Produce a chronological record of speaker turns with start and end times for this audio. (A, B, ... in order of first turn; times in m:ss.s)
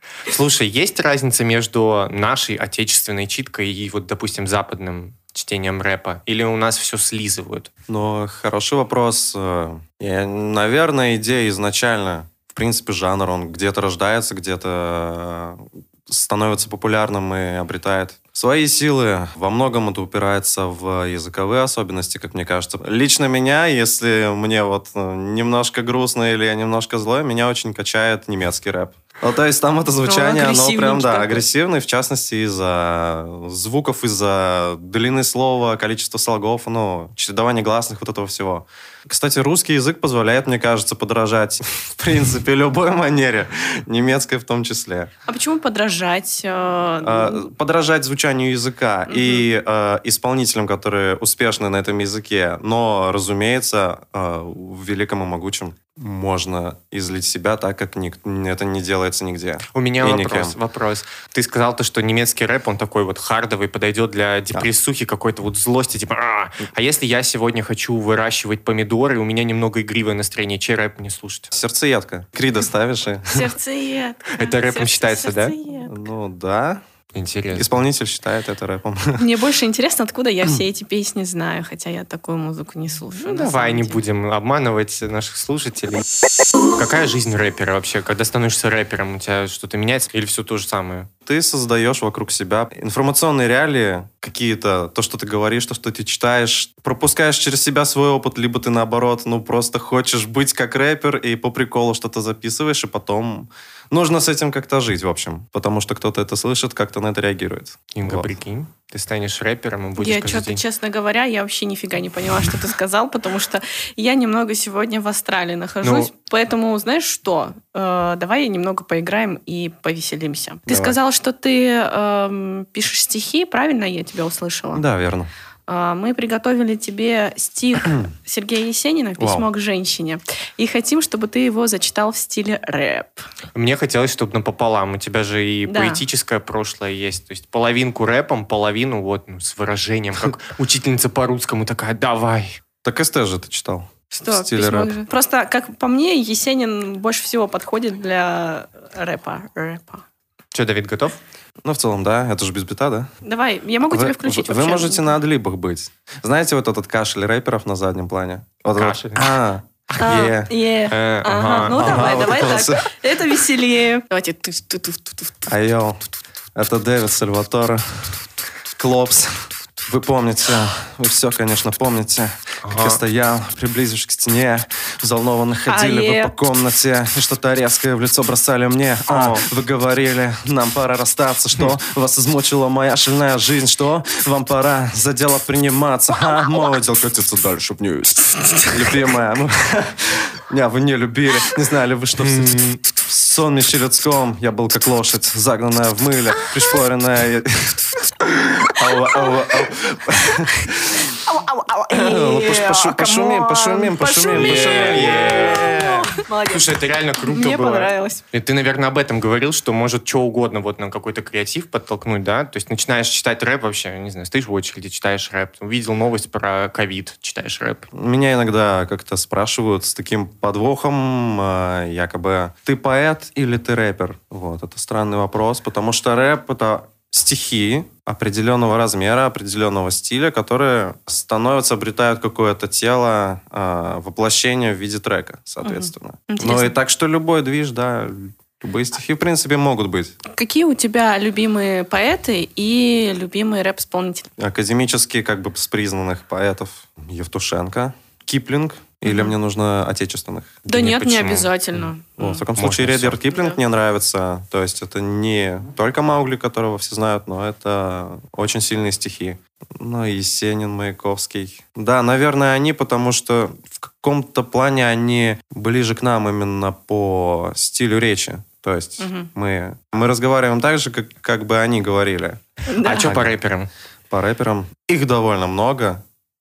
0:00.3-0:07.7 A
0:07.9-0:45.1 B
0:30.0-0:31.4 C
0:45.2-0:47.5 C
0:47.0-1:00.6 B
0:49.1-0:49.5 C
0:59.7-1:11.5 A
1:11.5-1:13.5 B
1:13.3-1:16.0 C
1:14.3-1:15.6 A
1:15.8-1:16.8 B
1:17.1-1:17.8 A
1:17.5-1:19.3 B
1:19.2-1:24.0 C
1:23.2-1:26.0 A
1:26.8-1:31.1 A
1:31.2-1:48.3 B
1:47.9-1:50.6 A
1:50.0-2:04.8 C
1:55.8-1:56.1 A
2:00.7-2:01.0 B
2:04.7-2:05.3 B
2:05.7-2:13.2 C
2:09.2-2:09.4 B
2:13.5-2:22.6 A
2:15.6-2:16.0 C
2:22.8-2:25.0 B
2:24.1-2:30.0 C
2:30.5-2:31.2 A
2:31.6-2:33.1 B
2:33.2-2:35.2 C
2:33.9-2:40.5 B
2:38.7-2:39.3 A
2:39.9-2:40.3 A
2:40.0-2:45.5 C
2:40.9-2:42.2 A
2:41.7-2:42.8 B
2:45.5-3:21.1 B
2:52.6-2:53.0 A
2:55.7-2:56.3 C
2:59.1-2:59.4 A
3:12.2-3:12.8 A
3:21.0-3:28.2 C
3:21.9-3:26.1 B
3:24.3-3:37.8 A
3:37.9-4:00.1 B
3:55.6-3:56.7 C
4:00.3-4:04.3 C
4:04.4-4:10.7 B
4:09.1-4:09.3 C
4:10.7-4:12.4 C
4:10.7-4:11.5 A
4:11.8-4:33.3 B
4:12.6-4:13.2 A
4:29.0-4:29.3 C
4:32.7-4:33.1 C
4:32.8-4:33.7 A
4:34.1-4:36.0 B